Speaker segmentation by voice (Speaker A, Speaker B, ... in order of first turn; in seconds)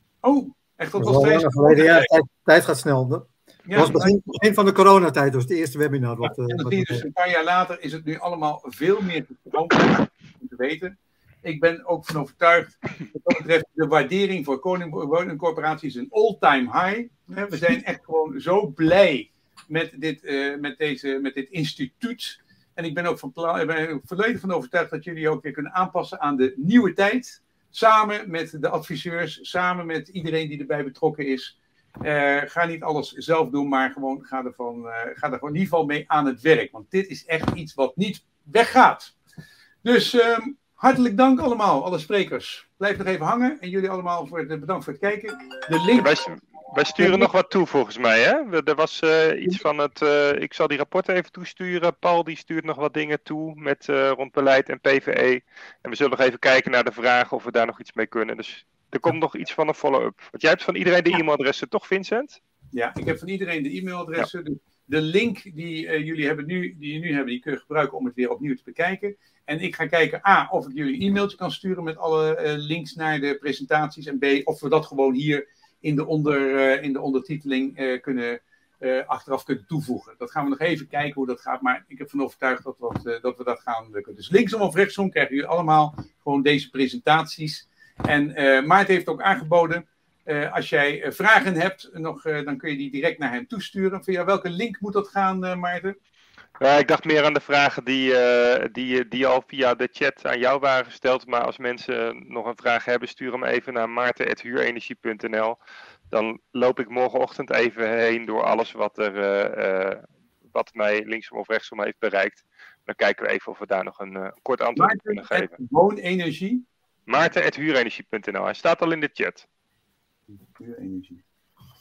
Speaker A: 0.2-2.1, 3.7-4.1, 6.2-39.1, 39.8-46.2, 47.0-47.3, 62.7-96.0, 114.8-116.6, 120.3-121.2
Speaker B: 1.0-7.0
Speaker C: 46.0-62.4, 96.6-105.6, 106.1-115.5, 117.1-119.5